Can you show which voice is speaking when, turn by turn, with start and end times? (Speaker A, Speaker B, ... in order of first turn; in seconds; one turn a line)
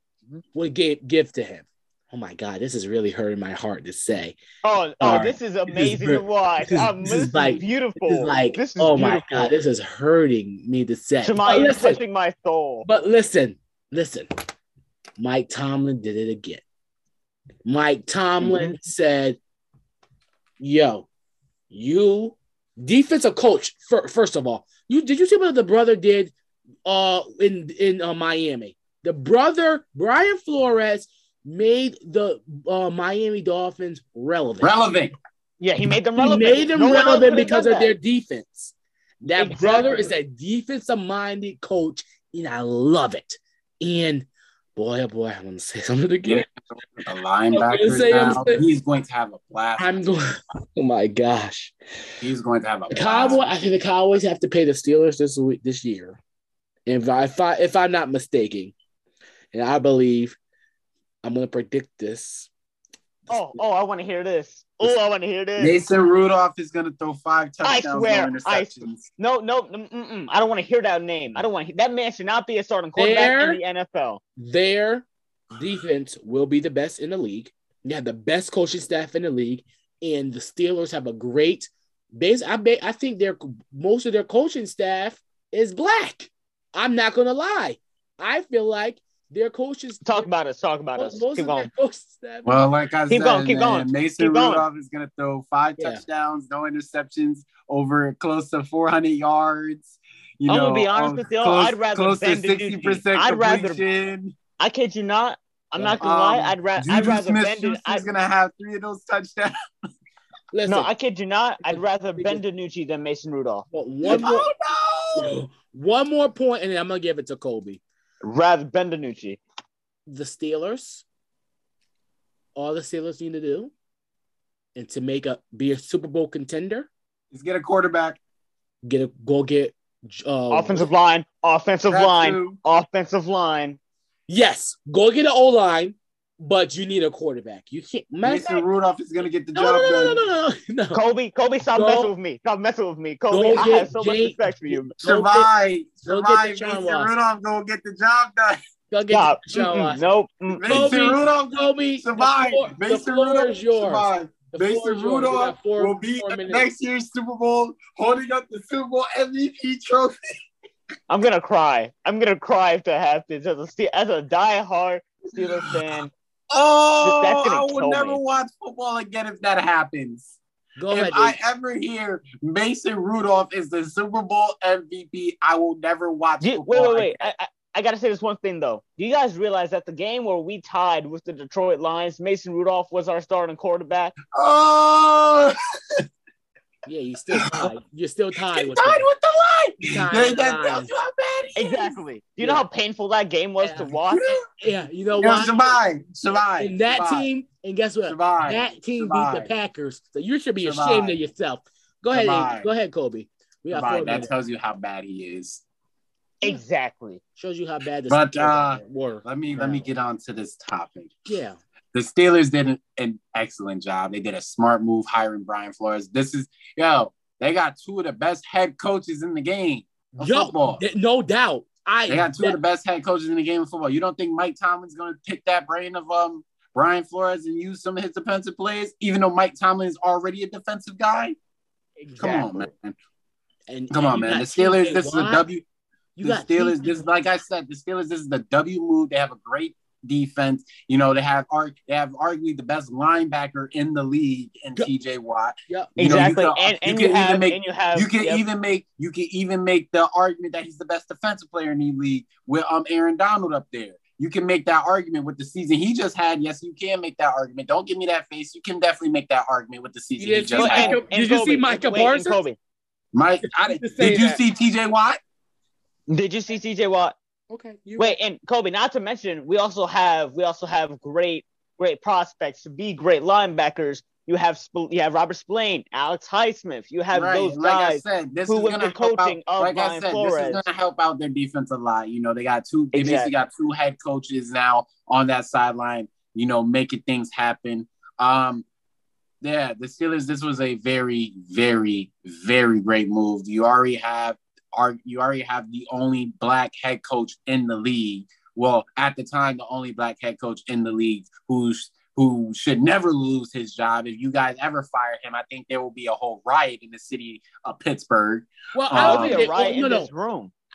Speaker A: 0.5-4.4
Speaker B: 4.6-9.6
Speaker A: 5.0-12.0
Speaker B: 11.2-12.9
Speaker A: 12.8-14.3
Speaker A: 15.2-16.6
Speaker A: 17.6-19.4
Speaker B: 18.4-18.8
Speaker A: 20.6-21.1
Speaker A: 21.7-26.3
Speaker A: 26.9-34.9
Speaker C: 34.6-35.1
Speaker B: 35.6-37.9
Speaker A: 36.2-46.5
Speaker B: 39.4-40.1
Speaker C: 46.2-50.0
Speaker A: 47.5-48.6
Speaker A: 49.8-51.8
Speaker C: 52.2-53.4
Speaker A: 52.9-56.2
Speaker A: 56.9-58.8
Speaker A: 59.5-60.4
Speaker A: 61.2-62.5
Speaker B: 63.3-65.8
Speaker C: 65.6-69.1
Speaker B: 67.6-74.2
Speaker A: 73.0-73.6
Speaker A: 74.4-90.3
Speaker B: 90.0-91.7
Speaker A: 91.0-92.6
Speaker C: 92.5-104.4
Speaker B: 93.1-94.6
Speaker B: 100.5-103.8
Speaker B: 104.6-108.1
Speaker A: 105.8-106.0
Speaker C: 106.0-109.5
Speaker A: 110.5-110.9
Speaker B: 110.7-114.2
Speaker A: 111.7-112.4
Speaker A: 113.7-114.5
Speaker C: 114.0-115.3
Speaker A: 115.2-117.8
Speaker B: 118.2-119.4
Speaker A: 120.1-121.0
Speaker A: 122.6-123.7
Speaker A: 124.8-126.9
Speaker C: 127.3-128.2
Speaker A: 128.8-130.9
Speaker B: 130.5-133.8
Speaker C: 131.9-132.6
Speaker A: 134.3-138.7
Speaker C: 138.2-140.2
Speaker A: 139.6-141.0
Speaker B: 140.9-145.0
Speaker A: 141.7-142.1
Speaker A: 143.3-145.5
Speaker C: 145.0-148.6
Speaker A: 146.1-147.1
Speaker A: 148.9-150.0
Speaker B: 149.1-150.7
Speaker C: 150.5-160.2
Speaker A: 150.6-156.7
Speaker B: 161.1-166.1
Speaker C: 165.4-165.7
Speaker C: 166.5-170.3
Speaker B: 167.0-168.2
Speaker A: 170.8-171.4
Speaker C: 170.9-177.3
Speaker B: 176.4-184.2
Speaker C: 184.3-186.0
Speaker A: 186.9-189.1
Speaker C: 187.3-187.7
Speaker C: 188.4-191.9
Speaker A: 189.9-190.9
Speaker B: 191.6-194.4
Speaker A: 192.4-192.7
Speaker A: 193.6-194.0
Speaker C: 194.1-194.4
Speaker A: 194.6-195.8
Speaker C: 195.2-197.3
Speaker A: 196.6-204.3
Speaker C: 198.1-199.5
Speaker C: 200.6-201.2
Speaker C: 202.1-202.7
Speaker C: 203.7-205.6
Speaker B: 206.4-207.2
Speaker A: 207.4-209.9
Speaker C: 208.1-211.2
Speaker A: 211.3-211.6
Speaker C: 211.9-220.8
Speaker A: 220.1-222.6
Speaker C: 222.1-231.4
Speaker A: 232.0-232.7
Speaker C: 232.2-233.0
Speaker A: 233.7-235.4
Speaker C: 233.9-235.6
Speaker A: 236.2-237.1
Speaker C: 236.2-261.0
Speaker A: 245.7-246.3
Speaker B: 246.0-248.4
Speaker A: 260.2-262.4
Speaker B: 260.6-262.6
Speaker C: 263.1-265.2
Speaker A: 263.4-264.4
Speaker B: 266.1-267.1
Speaker A: 267.5-268.2
Speaker B: 268.0-280.7
Speaker C: 277.1-288.6
Speaker B: 282.9-283.3
Speaker C: 289.4-309.5
Speaker A: 308.7-310.1
Speaker B: 308.9-310.5